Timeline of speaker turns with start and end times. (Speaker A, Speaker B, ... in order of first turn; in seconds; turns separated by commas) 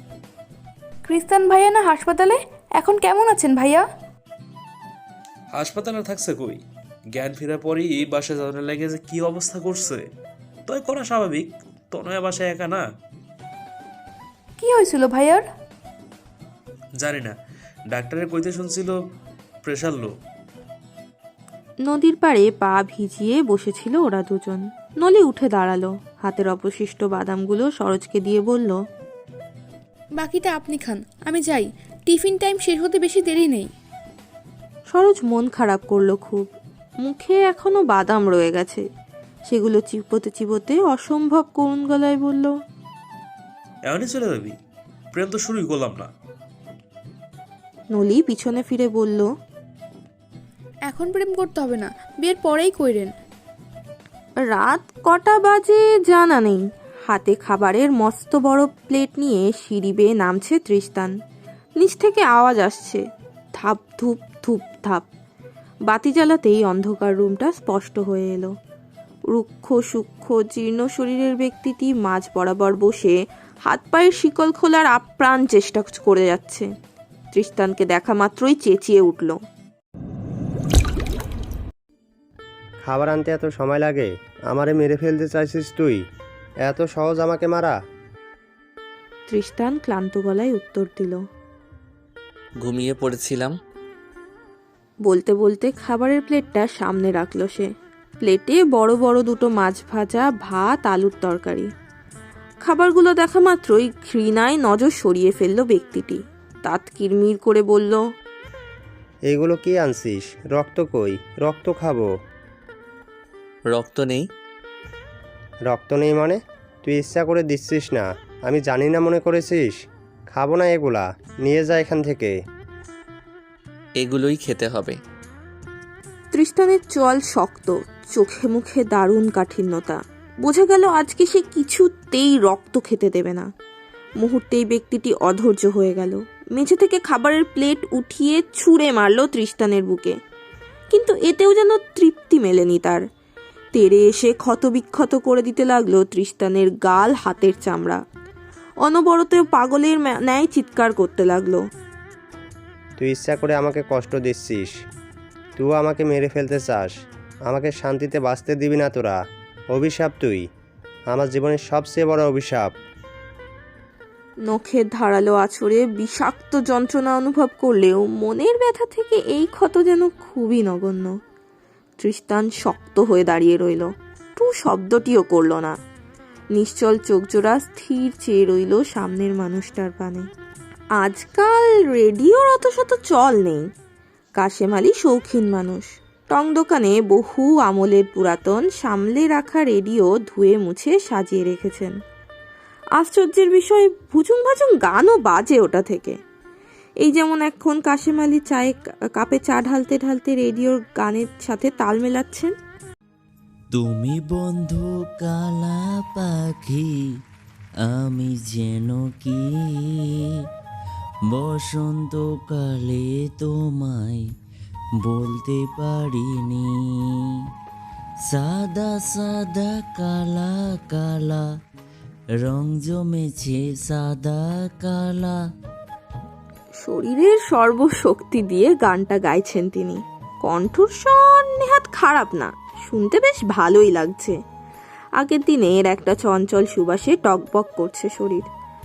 Speaker A: 1.1-3.8, Speaker B: 5.5-6.6, Speaker B: 7.2-10.0, Speaker B: 10.7-12.8, Speaker A: 14.6-15.4, Speaker B: 17.0-17.4, Speaker B: 17.9-18.9, Speaker B: 19.6-20.1, Speaker C: 21.9-28.8, Speaker A: 30.2-33.7, Speaker C: 34.9-36.5, Speaker C: 37.0-38.9, Speaker C: 39.5-42.5, Speaker B: 43.9-44.5, Speaker B: 45.1-46.1, Speaker C: 47.9-49.3, Speaker A: 50.9-53.1, Speaker C: 54.5-61.1, Speaker C: 61.8-63.0, Speaker C: 63.6-65.0, Speaker C: 65.9-68.5, Speaker C: 69.3-73.2, Speaker C: 73.7-76.7, Speaker C: 77.3-79.3, Speaker D: 82.8-86.0, Speaker D: 86.7-87.8, Speaker C: 89.3-91.2, Speaker E: 92.6-93.5, Speaker C: 95.1-97.7, Speaker C: 98.2-101.7, Speaker C: 102.6-108.0, Speaker D: 109.3-112.1, Speaker E: 113.7-114.3, Speaker D: 115.7-119.8, Speaker D: 120.3-122.3, Speaker E: 124.0-125.0, Speaker C: 126.3-133.5, Speaker C: 134.2-140.2, Speaker C: 140.9-143.0, Speaker C: 143.7-148.0, Speaker C: 148.8-151.6, Speaker D: 153.0-154.7, Speaker D: 155.6-156.9, Speaker D: 157.5-159.2, Speaker D: 159.7-160.4, Speaker D: 161.1-162.7, Speaker C: 164.4-171.1, Speaker C: 172.0-175.8, Speaker C: 176.5-180.3, Speaker C: 181.0-183.7, Speaker C: 184.4-191.9, Speaker C: 193.0-196.2, Speaker C: 197.0-202.5, Speaker F: 203.7-207.1, Speaker F: 207.8-210.4, Speaker F: 211.3-214.3, Speaker F: 215.0-217.4, Speaker F: 218.2-221.6, Speaker F: 222.4-225.5, Speaker C: 226.8-234.4, Speaker C: 235.2-238.5